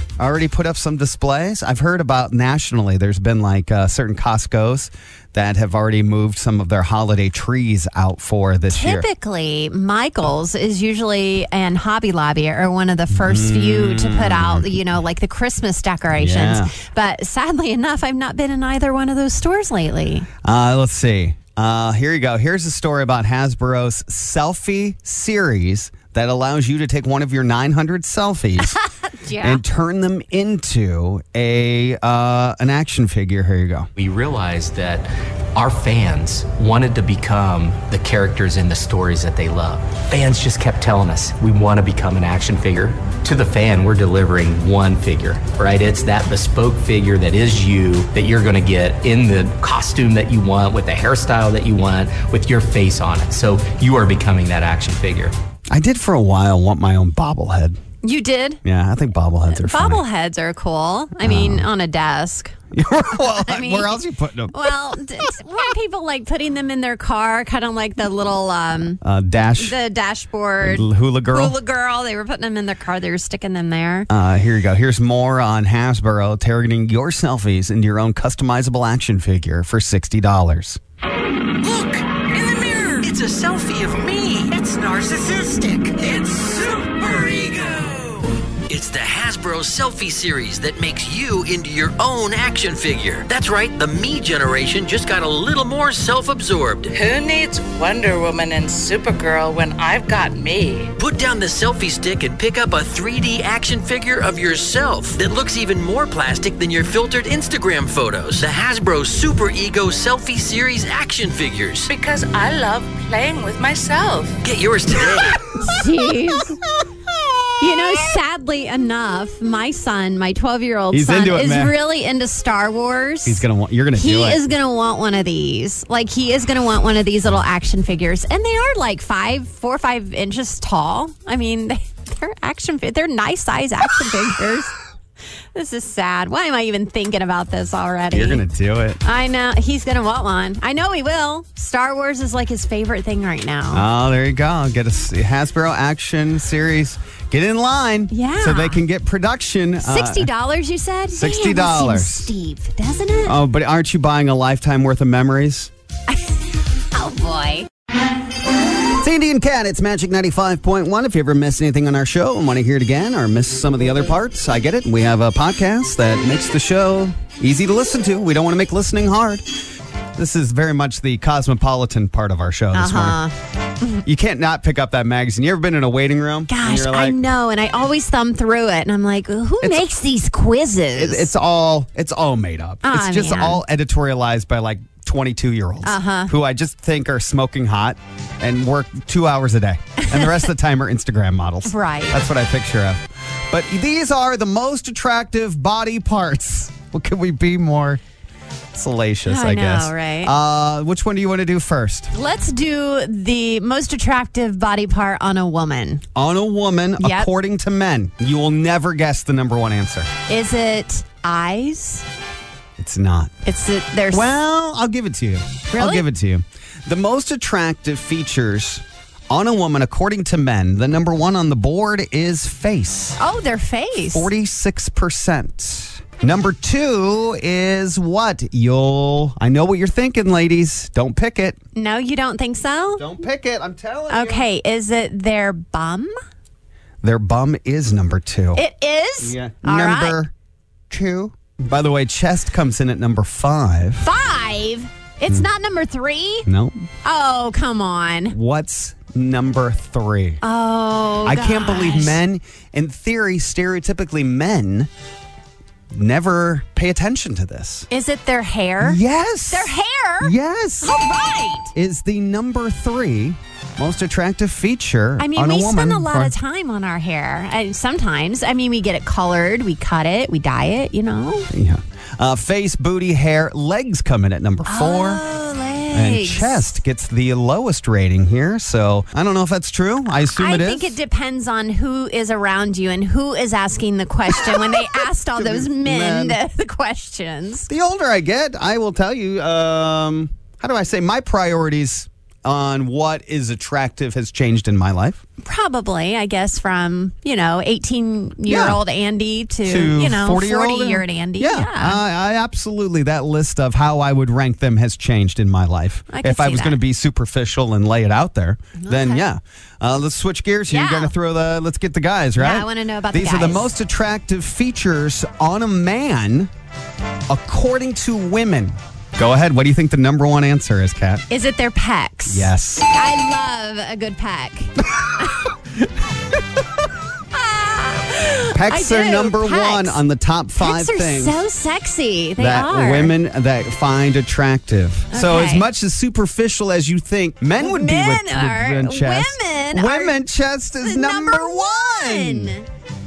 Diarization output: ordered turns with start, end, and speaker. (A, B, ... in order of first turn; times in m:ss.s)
0:00.2-0:09.0 A
0:08.7-0:20.3 B
0:13.1-0:14.8 A
0:16.1-0:16.7 A
0:20.4-0:28.8 A
0:28.6-0:29.6 B
0:29.4-0:33.9 A
0:34.0-0:55.3 C
0:55.7-0:57.8 A
0:58.0-0:58.6 B
0:58.6-1:00.0 A
0:59.5-1:02.5 B
1:01.2-1:01.7 A
1:02.7-1:05.0 A
1:03.1-1:04.0 B
1:04.5-1:09.0 B
1:09.0-1:09.8 A
1:09.6-1:14.1 B
1:10.6-1:11.6 A
1:14.1-1:20.8 A
1:21.6-1:36.9 D
1:36.9-1:40.9 E
1:41.0-1:51.9 D
1:51.8-1:54.4 E
1:54.4-1:55.8 D
1:55.6-1:56.6 B
1:57.6-2:14.7 B
2:00.9-2:01.8 A
2:03.2-2:04.4 A
2:15.5-2:18.4 B
2:18.1-2:19.0 A
2:19.0-2:23.8 B
2:23.7-2:30.3 A
2:28.1-2:28.8 B
2:29.8-2:33.4 B
2:31.1-2:32.3 A
2:33.2-2:35.7 A
2:36.9-2:37.7 B
2:38.9-2:53.2 A
2:52.7-2:53.3 B
2:54.0-2:57.2 A
2:56.5-3:01.3 B
2:59.6-2:59.9 A
3:00.9-3:18.0 A
3:02.8-3:03.6 B
3:05.8-3:06.3 B
3:11.6-3:12.2 B
3:18.7-3:22.1 A
3:19.2-3:20.3 B
3:22.1-3:26.0 B
3:26.2-3:30.1 A
3:27.0-3:27.3 B
3:30.3-3:32.0 B
3:32.8-3:33.3 A
3:33.4-3:34.4 B
3:34.1-3:43.2 A
3:35.7-3:36.0 B
3:43.2-3:44.3 B
3:44.1-3:51.6 A
3:51.7-3:53.1 B
3:53.0-3:54.4 A
3:54.1-3:56.1 B
3:57.0-3:58.6 A
3:58.5-4:00.2 B
3:59.2-4:00.3 A
4:00.9-4:04.1 A
4:04.0-4:06.4 B
4:06.4-4:06.8 A
4:07.0-4:08.3 B
4:08.3-4:10.4 A
4:10.4-4:12.2 B
4:11.2-4:14.9 A
4:15.9-4:17.9 A
4:17.9-4:21.7 B
4:18.8-4:21.0 A
4:21.7-4:26.3 A
4:25.2-4:31.5 B
4:31.5-4:35.2 A
4:34.6-4:36.7 B
4:35.9-4:40.9 A
4:40.1-4:47.7 B
4:44.3-4:46.4 A
4:47.7-4:55.2 A
4:55.4-5:02.0 B
4:58.4-4:58.8 A
4:59.6-5:16.5 A
5:06.1-5:06.8 B
5:08.8-5:09.2 B
5:10.7-5:11.1 B
5:12.4-5:13.7 B
5:17.3-5:21.2 A
5:21.3-5:25.3 B
5:22.3-5:22.9 A
5:27.3-5:30.0 B
5:28.5-5:31.4 A
5:30.6-5:33.2 B
5:32.4-5:42.6 A
5:35.1-5:35.7 B
5:37.6-5:40.2 B
5:40.8-5:42.6 B